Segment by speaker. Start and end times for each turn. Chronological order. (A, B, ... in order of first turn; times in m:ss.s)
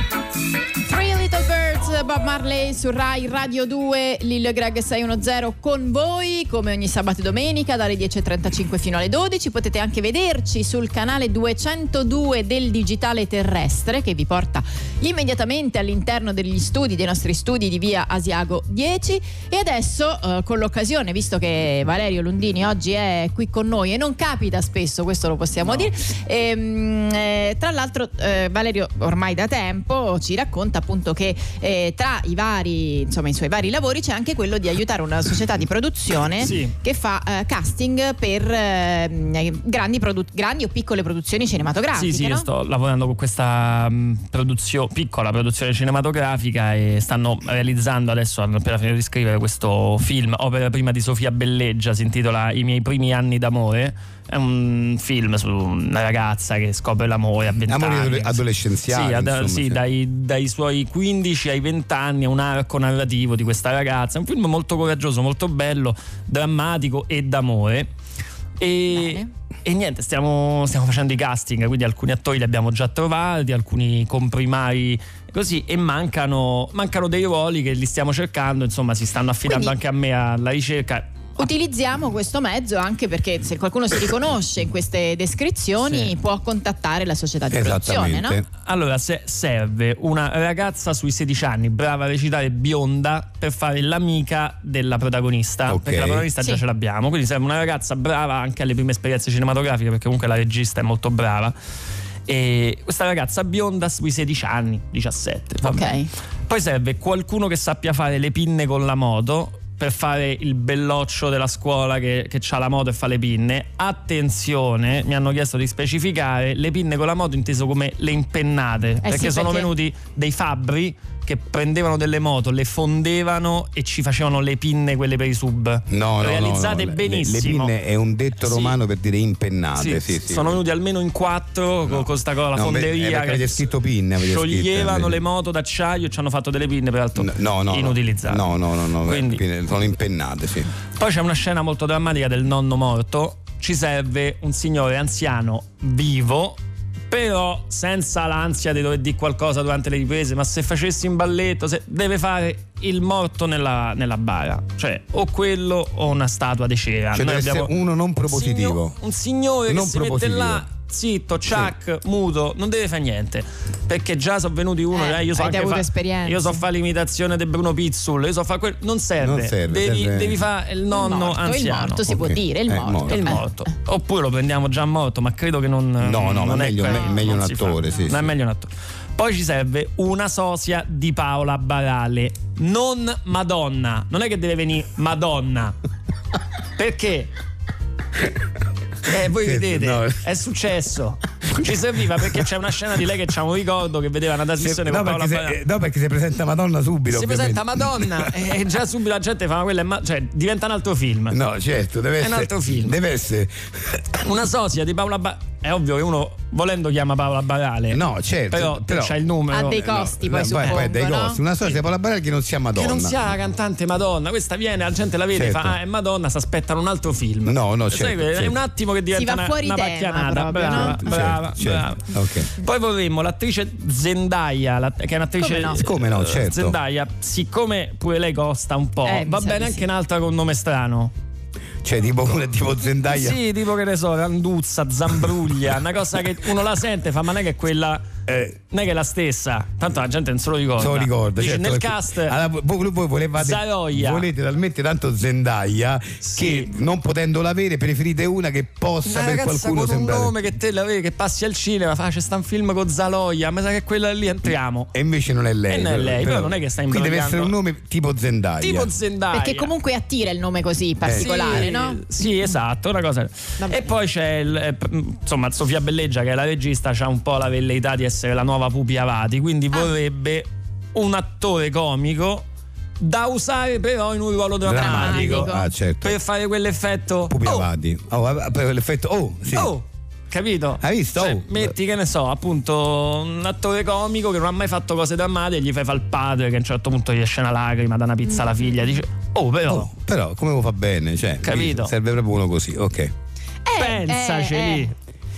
0:00.8-0:42.5 A
0:36.4-0:36.8 B
0:41.9-1:07.9 B
0:57.6-0:59.8 C
1:08.6-1:21.1 B
1:08.9-1:09.3 A
1:19.5-1:19.7 A
1:21.4-1:28.4 A
1:25.8-1:26.1 B
1:27.5-1:28.5 C
1:28.6-1:41.6 B
1:35.7-1:36.3 C
1:42.3-1:46.0 B
1:45.6-1:46.1 A
1:46.5-2:07.7 B
1:59.0-1:59.7 A
2:05.9-2:10.6 C
2:08.4-2:08.8 B
2:09.8-2:13.7 B
2:11.9-2:15.2 C
2:14.2-2:18.4 B
2:17.2-2:20.7 C
2:19.0-2:19.4 B
2:21.0-2:26.6 B
2:27.1-2:37.7 B
2:37.1-2:39.0 C
2:38.3-2:52.1 B
2:39.7-2:40.7 C
2:41.5-2:41.7 C
2:44.9-2:46.6 A
2:49.2-2:50.4 C
2:50.9-2:53.4 A
2:52.1-2:53.4 C
2:53.1-3:05.8 B
2:56.0-2:58.3 C
3:06.8-3:07.3 B
3:09.0-3:15.6 B
3:09.4-3:10.2 C
3:12.2-3:12.4 C
3:14.6-3:18.3 C
3:17.1-3:21.4 B
3:21.3-3:24.2 C
3:22.2-3:23.0 B
3:24.2-3:30.8 B
3:27.9-3:29.2 C
3:29.5-3:31.4 A
3:29.7-3:33.4 C
3:32.8-3:51.1 B
3:35.3-3:35.8 C
3:37.4-3:38.6 C
3:39.1-3:41.3 A
3:40.7-3:42.5 C
3:45.4-3:45.8 A
3:45.7-3:46.8 C
3:49.1-3:49.8 A
3:51.8-3:53.4 C
3:53.0-3:58.1 B
3:58.3-3:58.6 C
3:58.7-4:02.4 B
4:00.8-4:10.4 C
4:03.4-4:04.3 B
4:06.2-4:06.7 B
4:09.0-4:14.9 B
4:14.9-4:18.9 C
4:15.7-4:17.5 B
4:18.6-4:19.7 B
4:19.3-4:22.0 A
4:21.0-4:21.7 C
4:21.1-4:32.5 B
4:23.6-4:23.9 A
4:33.0-4:35.5 B
4:34.6-4:36.2 C
4:34.7-4:35.7 A
4:36.0-4:37.7 B
4:37.3-4:39.7 C
4:39.5-4:49.9 B
4:40.8-4:41.7 C
4:49.7-4:53.1 C
4:51.4-4:51.9 B
4:53.6-4:54.9 A
4:53.8-4:54.9 B